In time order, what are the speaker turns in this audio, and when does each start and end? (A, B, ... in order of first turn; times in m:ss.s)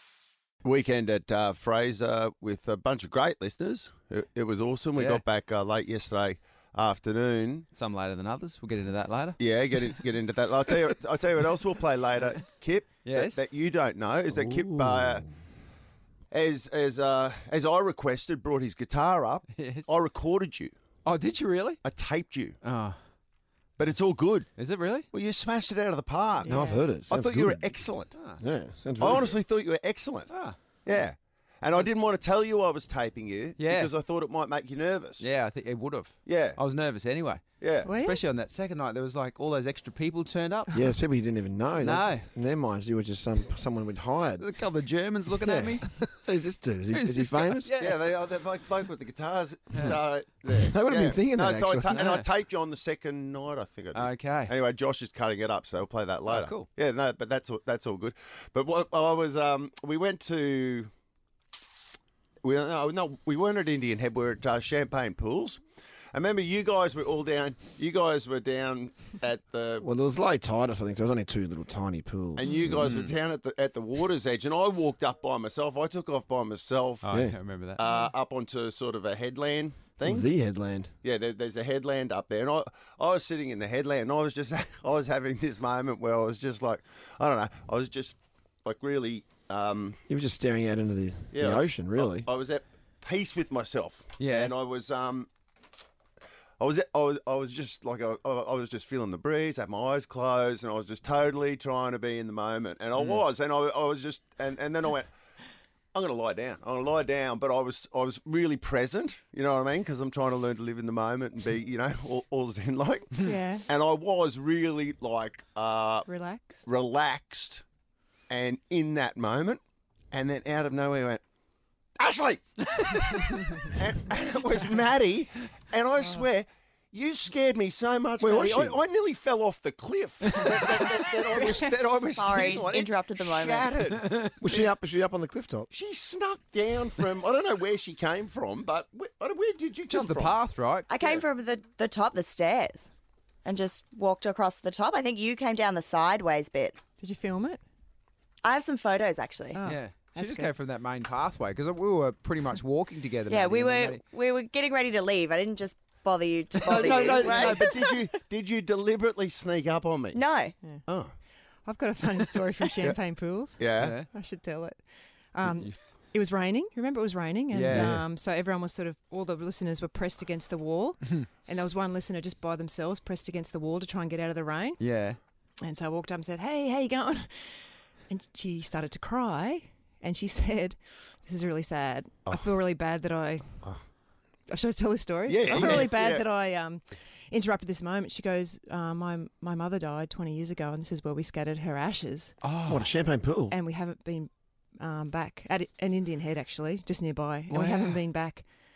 0:00.6-0:07.7 A
0:05.0-0:05.2 B
0:07.7-0:09.4 B
0:09.4-0:15.3 A
0:13.0-0:13.4 B
0:14.3-0:15.2 C
0:16.3-0:20.7 A
0:19.6-0:19.9 B
0:21.0-0:21.8 B
0:21.8-0:22.6 A
0:22.6-0:23.0 B
0:23.8-0:24.5 A
0:24.6-0:25.1 B
0:25.1-0:28.2 A
0:26.4-0:26.9 D
0:26.4-0:27.7 C
0:28.1-0:28.4 B
0:28.4-0:29.4 C
0:29.0-0:30.3 A
0:30.3-0:30.6 B
0:30.8-0:35.3 A
0:33.6-0:33.9 B
0:35.2-0:40.7 B
0:36.3-0:36.6 A
0:37.6-0:37.9 A
0:37.8-0:38.2 D
0:40.7-0:44.5 C
0:41.8-0:42.3 B
0:44.4-0:45.8 B
0:45.4-0:47.7 C
0:46.9-0:48.0 B
0:47.8-1:00.9 A
0:49.7-0:50.0 B
0:50.5-0:52.0 C
0:51.9-0:52.3 B
0:53.9-0:54.5 B
0:56.3-0:56.7 B
1:02.4-1:05.6 A
1:06.1-1:09.8 A
1:09.8-1:12.9 C
1:12.4-1:17.2 A
1:12.8-1:13.2 B
1:17.0-1:17.8 B
1:17.1-1:17.4 C
1:17.8-1:20.3 A
1:20.0-1:20.9 C
1:21.0-1:30.0 A
1:30.1-1:32.3 C
1:31.3-1:35.3 A
1:34.2-1:34.5 B
1:36.6-1:45.1 A
1:45.9-1:56.1 A
1:53.2-1:53.7 D
1:56.1-1:56.6 D
1:56.6-1:57.6 A
1:58.3-2:01.2 A
2:02.0-2:14.7 A
2:08.2-2:08.8 C
2:12.2-2:13.8 E
2:14.4-2:15.7 C
2:15.7-2:20.4 A
2:19.9-2:21.2 B
2:20.9-2:22.9 E
2:23.4-2:26.8 E
2:27.0-2:27.6 D
2:28.4-2:29.6 E
2:29.5-2:30.5 D
2:29.6-2:34.0 B
2:33.3-2:37.9 E
2:36.6-2:37.5 B
2:36.6-2:40.2 A
2:40.1-2:40.6 E
2:40.9-2:41.1 A
2:41.6-2:44.8 D
2:42.6-2:43.0 A
2:43.6-2:44.0 A
2:43.8-2:44.1 B
2:45.3-2:54.8 D
2:45.4-2:45.8 B
2:47.5-2:48.0 B
2:47.6-2:48.0 C
2:54.8-2:55.2 B
2:55.6-2:57.5 D
2:58.1-3:03.6 D
3:02.3-3:02.5 A
3:04.5-3:12.4 D
3:05.3-3:06.3 A
3:05.5-3:05.9 B
3:12.4-3:12.9 B
3:12.6-3:13.6 C
3:13.5-3:18.5 D
3:17.5-3:18.0 B